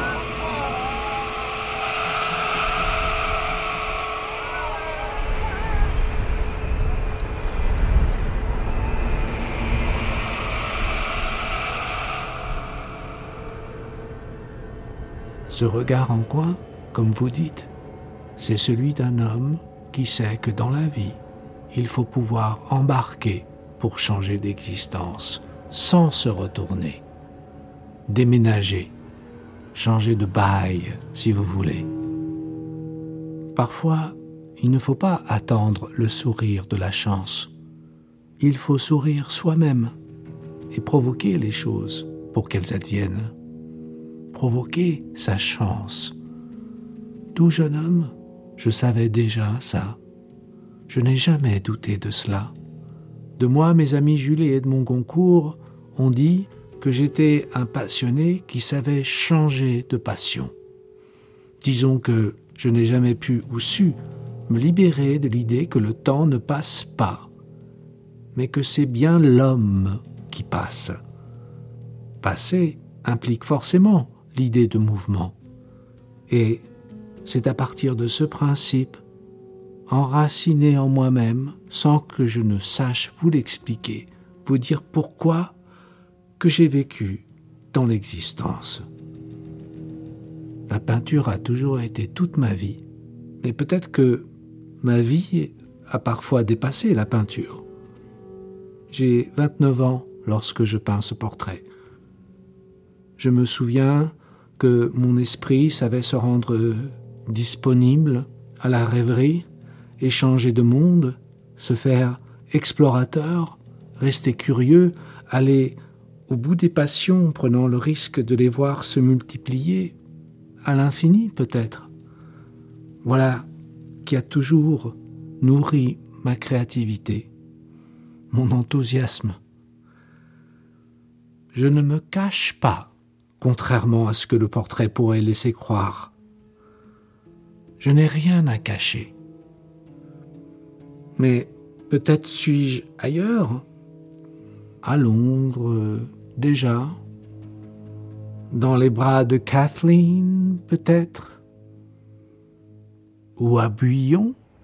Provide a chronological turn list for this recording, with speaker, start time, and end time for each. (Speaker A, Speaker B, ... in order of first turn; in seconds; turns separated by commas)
Speaker A: 15.5-17.7, Speaker A: 18.4-21.2, Speaker A: 21.7-27.0, Speaker A: 28.1-28.9, Speaker A: 29.7-31.9, Speaker A: 33.5-37.5, Speaker A: 38.4-39.9, Speaker A: 40.7-43.3, Speaker A: 44.3-46.1, Speaker A: 47.3-50.0, Speaker A: 50.9-52.5, Speaker A: 53.4-60.5, Speaker A: 61.6-67.3, Speaker A: 68.3-71.0, Speaker A: 72.2-75.3, Speaker A: 76.3-76.7, Speaker A: 77.2-79.0, Speaker A: 79.9-85.5, Speaker A: 86.4-88.8, Speaker A: 90.7-92.8, Speaker A: 93.4-94.2, Speaker A: 94.8-97.6, Speaker A: 98.9-101.6, Speaker A: 103.2-109.5, Speaker A: 110.0-120.0, Speaker A: 120.6-121.9, Speaker A: 123.0-123.5, Speaker A: 124.0-127.3, Speaker A: 128.3-129.4, Speaker A: 131.5-136.1, Speaker A: 137.8-139.1, Speaker A: 141.2-143.6, Speaker A: 144.8-147.0, Speaker A: 148.5-151.4, Speaker A: 153.4-154.3